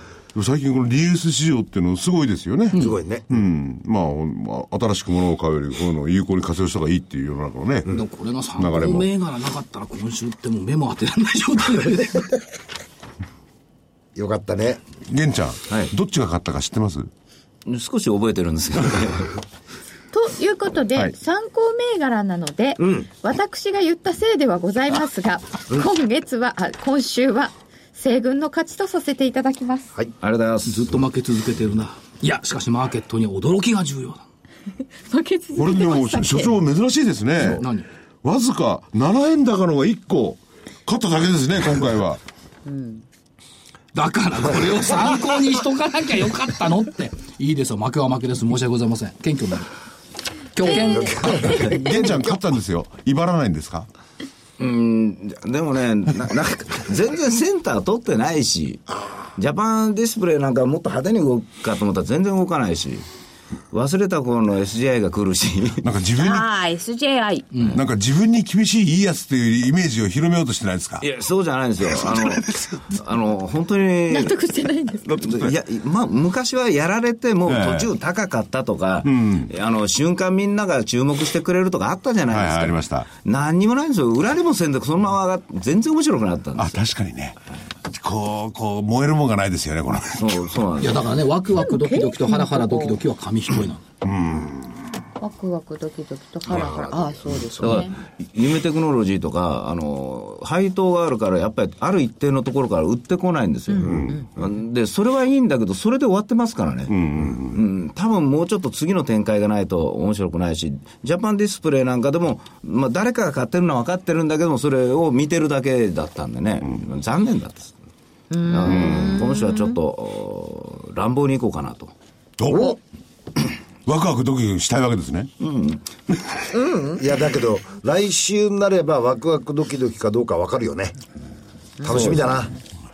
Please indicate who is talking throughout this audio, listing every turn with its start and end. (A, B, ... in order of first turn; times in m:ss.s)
0:00.3-0:07.9 A
0:02.8-0:03.3 B
0:07.9-0:12.4 C
0:08.6-0:09.1 A
0:14.2-0:14.8 B
0:15.1-0:17.1 A
0:17.7-0:19.4 D
0:20.1-0:29.9 E
0:22.8-0:23.1 B
0:30.2-0:30.9 D
0:30.6-0:34.2 C
0:35.0-0:36.5 E
0:35.6-0:37.7 A
0:37.4-0:37.9 C
0:38.2-0:42.2 A
0:42.7-0:43.0 E
0:43.9-0:49.7 C
0:50.5-0:51.7 C
0:50.6-0:51.8 E
0:50.8-0:52.4 B
0:51.5-0:53.9 A
0:54.6-1:03.0 D
1:03.7-1:05.9 D
1:05.8-1:06.5 A
1:06.2-1:07.6 E
1:07.5-1:07.8 C
1:07.7-1:11.0 A
1:11.0-1:14.4 D
1:12.0-1:12.7 A
1:14.1-1:15.2 E
1:15.0-1:26.8 D
1:17.5-1:17.9 A
1:19.0-1:19.5 A
1:22.3-1:23.1 A
1:26.6-1:30.6 A
1:30.2-1:31.2 D
1:30.8-1:33.8 C
1:31.6-1:33.0 E
1:34.0-1:34.8 A
1:35.2-1:38.0 E
1:36.4-1:37.9 B
1:37.6-1:46.9 D
1:43.7-1:44.3 E
1:46.9-1:47.6 A
1:47.5-1:57.8 D
1:58.3-1:59.8 E
1:58.4-2:01.9 D
2:02.4-2:02.8 A
2:02.5-2:02.8 B
2:03.9-2:05.3 A
2:05.4-2:05.8 D
2:06.5-2:07.0 E
2:07.0-2:11.0 B
2:11.8-2:12.2 E
2:11.8-2:12.5 B
2:11.9-2:12.2 A